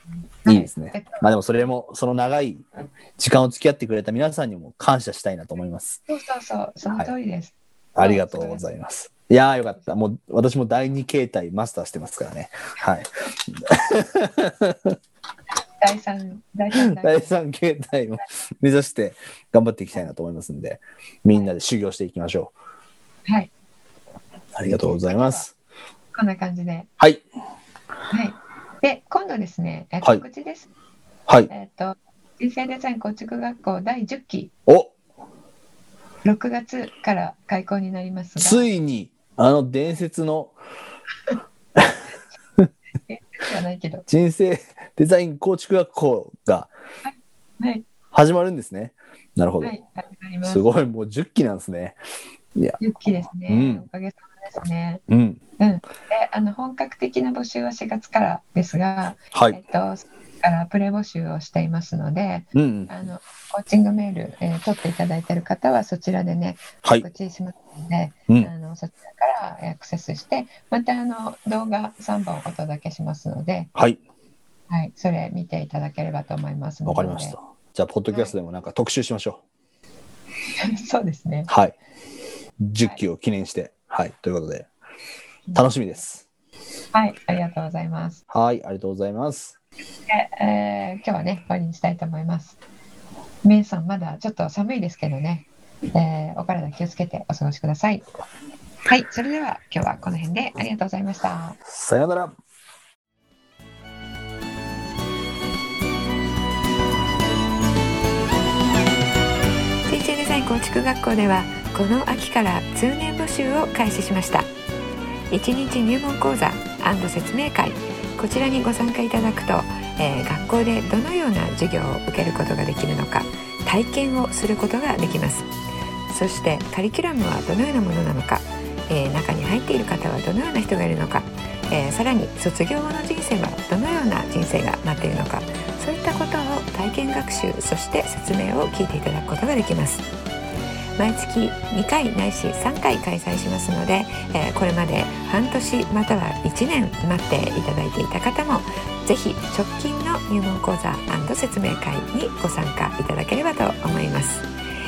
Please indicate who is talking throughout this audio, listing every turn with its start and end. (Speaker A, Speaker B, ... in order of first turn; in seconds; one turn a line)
Speaker A: 0.4-1.2
Speaker B: 0.5-6.0
Speaker A: 6.1-8.6
Speaker B: 6.8-7.1
Speaker B: 8.0-15.0
Speaker A: 15.8-17.4
Speaker B: 16.8-22.5
Speaker B: 24.6-25.5
Speaker A: 24.6-25.4
Speaker A: 26.1-26.9
Speaker B: 27.0-27.2
Speaker A: 28.1-30.7
Speaker A: 31.5-34.5
Speaker B: 34.7-34.9
Speaker A: 36.2-38.7
Speaker B: 38.4-40.5
Speaker A: 43.1-44.1
Speaker B: 44.1-46.7
Speaker A: 47.0-47.9
Speaker B: 48.1-49.7
Speaker A: 49.6-50.7
Speaker B: 50.4-52.0
Speaker B: 52.5-52.8
Speaker A: 52.8-55.0
Speaker B: 53.4-53.9
Speaker B: 55.1-55.4
Speaker A: 55.6-73.7
Speaker B: 59.3-59.6
Speaker B: 62.5-63.0
Speaker A: 74.7-77.4
Speaker B: 76.9-79.4
Speaker A: 80.6-81.5
Speaker B: 81.5-81.8
Speaker B: 82.6-84.7
Speaker A: 85.5-85.8
Speaker B: 85.5-86.2
Speaker A: 86.9-88.2
Speaker B: 88.3-89.5
Speaker A: 90.1-92.6
Speaker A: 93.4-98.1
Speaker A: 98.9-101.6
Speaker B: 101.7-102.4
Speaker A: 109.9-114.5
Speaker A: 115.3-125.5
Speaker A: 126.1-140.1
Speaker A: 141.0-154.5